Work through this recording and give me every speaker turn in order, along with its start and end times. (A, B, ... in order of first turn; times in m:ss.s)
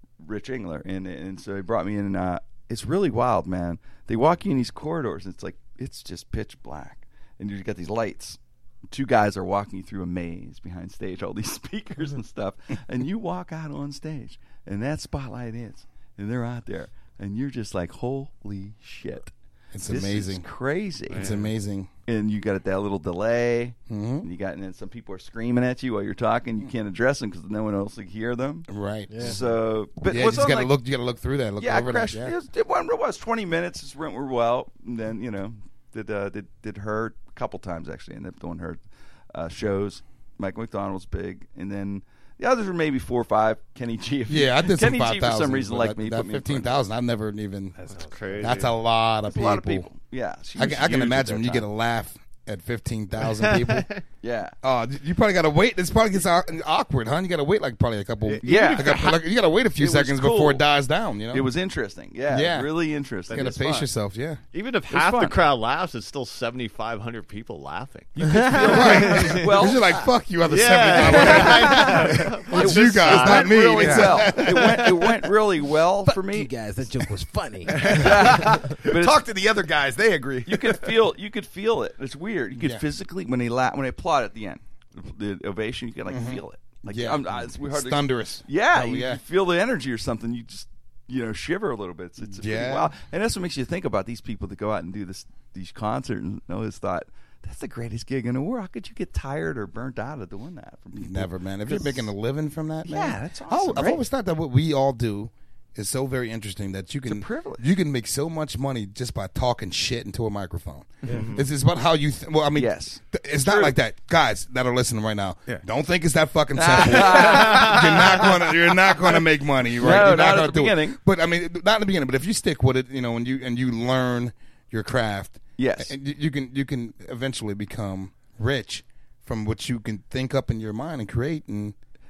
0:00.2-0:08.4 A
0:08.9-0:19.3 A
0:19.7-0:20.4 B
0:19.9-0:21.3 A
0:21.1-0:21.9 B
0:22.1-0:28.7 A
0:23.9-0:24.3 B
0:28.7-0:29.4 B
0:29.1-0:29.4 C
0:29.2-0:30.7 A
0:30.0-0:32.4 B
0:31.6-0:38.8 A
0:39.3-0:46.7 A
0:44.3-0:47.8 B
0:47.8-0:48.2 C
0:47.9-0:48.7 D
0:48.4-0:49.9 B
0:49.3-0:51.6 A
0:50.6-0:53.9 B
0:53.3-0:54.0 D
0:54.2-0:54.6 A
0:54.6-1:01.5 B
0:58.3-0:59.0 D
0:58.4-0:59.2 A
0:59.8-1:00.6 A
1:01.3-1:03.8 A
1:02.3-1:02.7 B
1:03.3-1:03.9 D
1:03.3-1:04.4 B
1:04.5-1:09.5 D
1:04.9-1:05.4 A
1:08.2-1:09.9 A
1:08.3-1:08.6 C
1:08.5-1:14.9 B
1:10.5-1:14.9 D
1:11.2-1:11.6 A
1:12.5-1:16.5 A
1:13.8-1:14.1 E
1:16.1-1:17.8 C
1:17.7-1:21.0 E
1:17.8-1:19.2 A
1:20.5-1:42.1 A
1:22.6-1:22.8 B
1:26.1-1:29.2 B
1:32.3-1:32.9 B
1:41.0-2:11.8 B
1:42.9-1:44.0 A
1:47.1-1:47.6 A
1:51.1-1:51.5 D
1:52.6-1:53.8 A
1:56.6-1:58.4 A
1:59.8-2:01.0 A
2:05.6-2:05.9 A